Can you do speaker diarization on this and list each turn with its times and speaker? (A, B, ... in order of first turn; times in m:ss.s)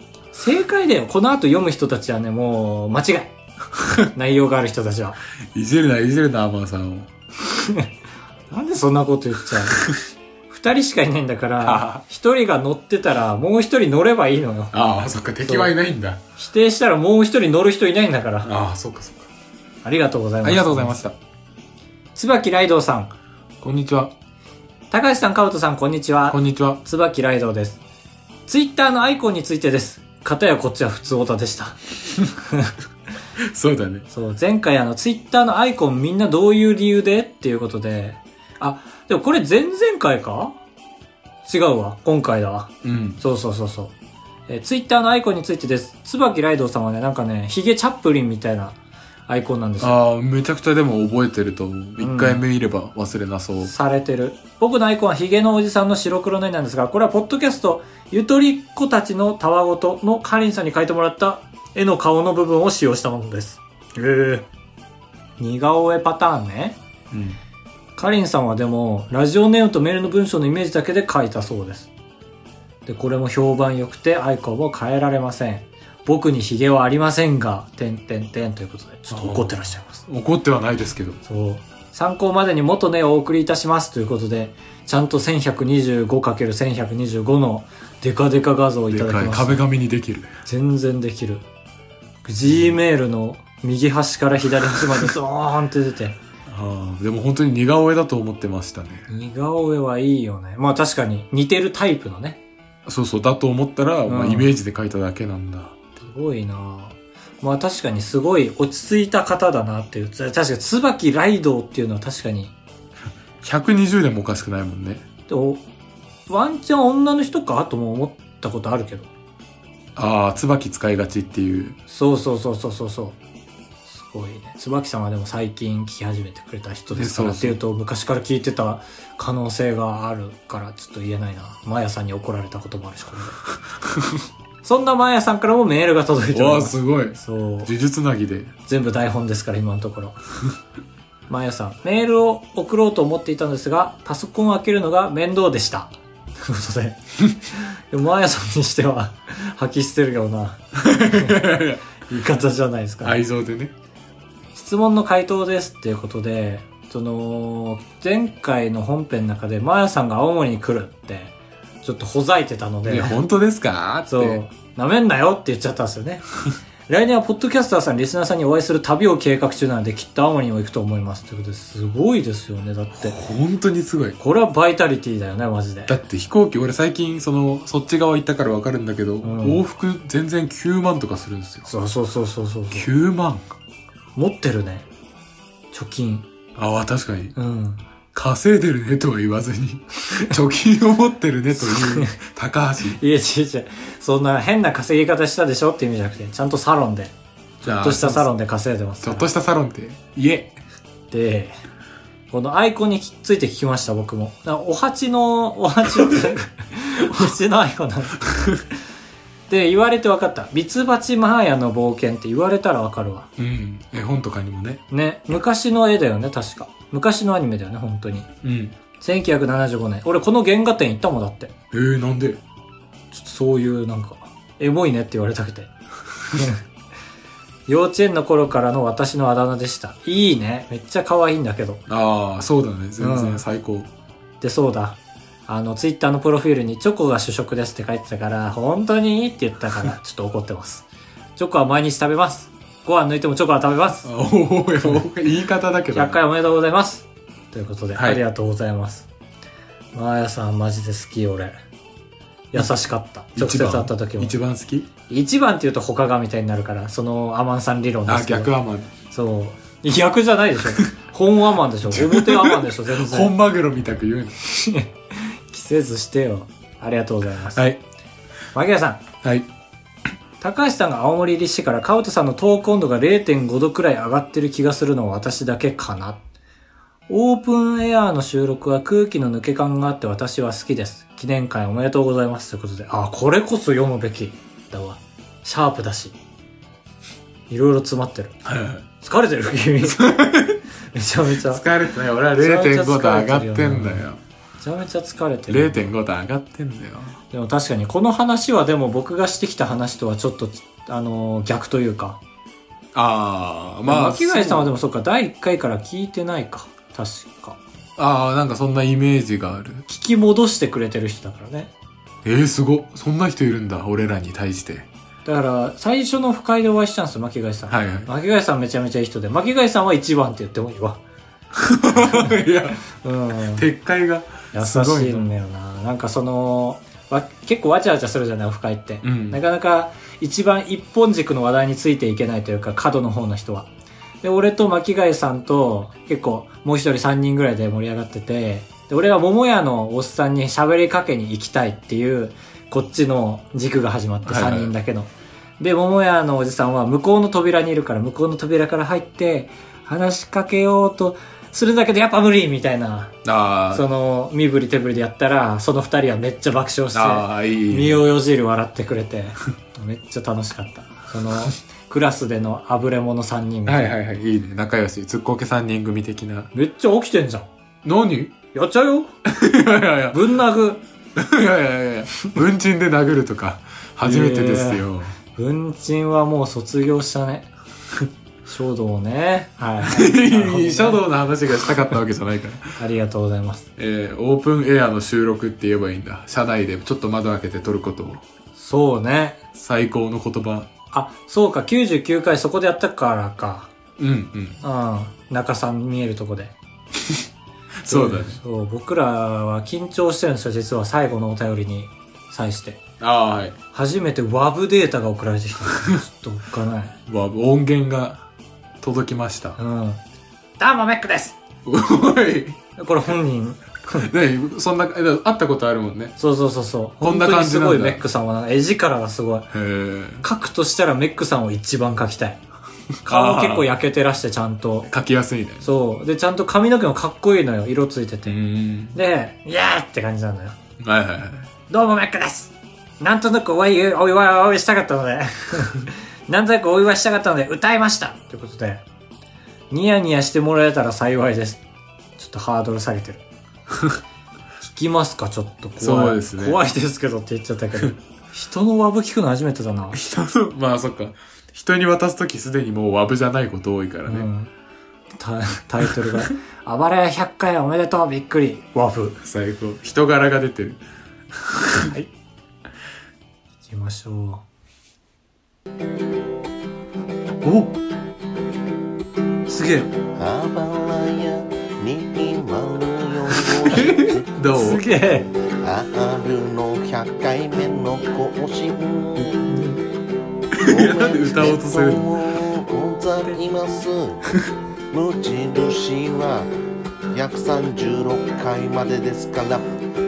0:00.3-0:03.3 A
0:04.1-0:05.2 A
0:05.5-0:07.1 B
0:07.5-0:07.9 A
0:08.5-0:09.8 A
0:09.7-0:10.0 B
0:10.5-0:14.8 A
0:11.6-0:12.0 B
0:14.7-0:16.2 B
0:15.4-0:15.7 A
0:16.4-0:18.5 A
0:18.4-0:19.3 B
0:19.8-0:21.0 A
0:20.4-0:21.2 B
0:22.2-0:23.1 A
0:23.6-0:24.1 B
0:24.9-0:27.8 A
0:26.3-0:26.8 B
0:28.5-0:31.8 A
0:32.4-0:32.7 A
0:33.4-0:34.1 B
0:34.1-0:40.6 A
0:41.4-0:43.9 A
0:42.8-0:43.2 B
0:44.5-0:48.8 A
0:49.3-0:50.0 A
0:49.8-0:53.7 B
0:52.0-0:52.4 A
0:53.6-1:04.5 A
1:05.4-1:06.8 A
1:07.1-1:07.4 B
1:08.0-1:11.9 A
1:12.9-1:20.0 A
1:19.1-1:19.5 B
1:20.1-1:21.2 B
1:21.3-1:29.6 A
1:28.9-1:30.3 B
1:30.5-1:31.4 A
1:32.2-1:36.2 A
1:32.5-1:32.8 B
1:36.5-1:39.1 B
1:39.1-1:42.4 A
1:42.9-1:45.8 B
1:44.1-1:44.5 A
1:46.0-1:52.5 A
1:53.4-1:55.0 B
1:55.3-1:55.6 A
1:56.3-1:59.1 A
2:00.0-2:01.8 B
2:01.9-2:03.2 A
2:03.9-2:13.4 A
2:06.9-2:07.6 B
2:13.8-2:14.2 B
2:14.6-2:17.7 A
2:16.3-2:18.5 B
2:18.7-2:20.2 A
2:21.3-2:27.0 A
2:27.5-2:31.5 A
2:30.8-2:31.9 B
2:32.1-2:33.2 A
2:33.0-2:33.7 B
2:34.5-2:43.2 A
2:42.8-2:44.4 B
2:44.1-2:46.3 A
2:46.9-2:53.2 A
2:53.0-2:54.2 B
2:54.2-2:56.0 A
2:55.9-3:01.7 B
2:59.2-2:59.6 A
3:01.7-3:02.9 A
3:02.7-3:03.4 B
3:04.2-3:04.9 A
3:05.7-3:06.3 A
3:06.6-3:07.3 B
3:07.4-3:07.8 A
3:08.1-3:13.0 B
3:11.7-3:12.2 A
3:12.9-3:19.3 A
3:17.6-3:18.3 B
3:19.0-3:20.6 B
3:21.1-3:21.6 A
3:22.3-3:28.4 A
3:29.5-3:33.3 A
3:33.4-3:34.8 B
3:34.9-3:38.3 A
3:38.4-3:38.8 B
3:39.0-3:41.5 A
3:41.7-3:42.4 B
3:43.1-3:45.7 A
3:46.3-3:46.6 A
3:47.7-3:51.8 A
3:51.9-3:53.9 B
3:53.0-3:53.4 A
3:54.4-4:04.1 A
4:04.0-4:06.2 B
4:05.9-4:09.1 A
4:08.0-4:08.2 B
4:09.9-4:11.5 A
4:12.5-4:14.3 A
4:13.4-4:14.9 B
4:15.1-4:18.5 A
4:18.1-4:18.9 B
4:19.1-4:23.3 A
4:21.9-4:24.4 B
4:24.4-4:27.6 A
4:27.5-4:27.8 B
4:28.5-4:29.0 A
4:30.4-4:36.2 A
4:37.1-4:46.2 A
4:47.5-4:48.4 A
4:48.4-4:48.9 B
4:49.0-4:50.0 A
4:49.9-4:50.6 B
4:50.9-4:51.6 A
4:51.4-4:54.2 B
4:52.4-4:54.0 A
4:54.6-4:55.9 A
4:55.5-4:57.2 B
4:57.3-5:02.2 A
5:02.9-5:04.7 B
5:03.9-5:07.6 A
5:08.0-5:09.8 B
5:09.9-5:11.7 A
5:12.2-5:14.9 B
5:15.2-5:21.0 A
5:17.7-5:18.1 B
5:21.6-5:22.8 B
5:21.9-5:22.4 A
5:22.9-5:23.6 A
5:23.5-5:25.3 B
5:24.5-5:33.7 A
5:29.0-5:29.4 B
5:34.2-5:53.2 A
5:44.3-5:44.7 B
5:53.2-5:53.8 B
5:53.7-6:03.9 A
5:56.9-5:58.0 B
6:03.7-6:06.5 B
6:06.5-6:07.5 A
6:07.8-6:08.4 B
6:08.5-6:09.1 A
6:09.3-6:10.3 B
6:10.1-6:10.8 A
6:11.2-6:15.2 B
6:14.0-6:17.5 A
6:18.5-6:21.0 A
6:19.8-6:22.8 B
6:22.8-6:23.7 A
6:23.8-6:28.2 B
6:28.6-6:29.4 A
6:29.6-6:30.7 B
6:30.9-6:33.7 A
6:34.0-6:34.6 B
6:34.6-6:36.6 A
6:37.8-6:38.4 B
6:37.9-6:42.8 A
6:43.0-6:43.6 B
6:43.7-6:47.0 A
6:47.1-6:48.2 B
6:48.8-6:49.6 B
6:49.6-6:50.0 A
6:50.6-6:51.4 A
6:51.6-6:52.6 B
6:52.8-6:54.1 A
6:53.9-6:56.2 B
6:56.2-6:59.5 A
6:57.0-6:58.0 B
6:59.5-7:00.2 B
7:00.2-7:02.4 A
7:03.0-7:03.7 B
7:03.0-7:04.9 A
7:04.9-7:05.7 B
7:05.6-7:08.4 A
7:08.3-7:09.0 B
7:08.9-7:10.6 A
7:10.8-7:11.5 B
7:11.7-7:18.8 A
7:19.7-7:21.6 A
7:22.2-7:23.2 A
7:23.7-7:24.0 B
7:24.6-7:30.0 A
7:25.8-7:26.6 B
7:29.9-7:34.3 B
7:34.1-7:34.5 A
7:35.2-7:39.2 A
7:35.9-7:36.2 B
7:39.2-7:40.8 B
7:41.3-7:41.9 B
7:41.8-7:42.1 A
7:43.7-7:44.4 A
7:49.5-7:49.9 A
7:50.1-7:54.4 C
7:53.7-7:54.8 B
7:54.5-7:55.3 A
7:55.6-7:59.4 C
7:59.2-7:59.8 A
8:00.5-8:02.4 B
8:00.6-8:04.3 C
8:04.9-8:06.5 C
8:07.1-8:09.7 C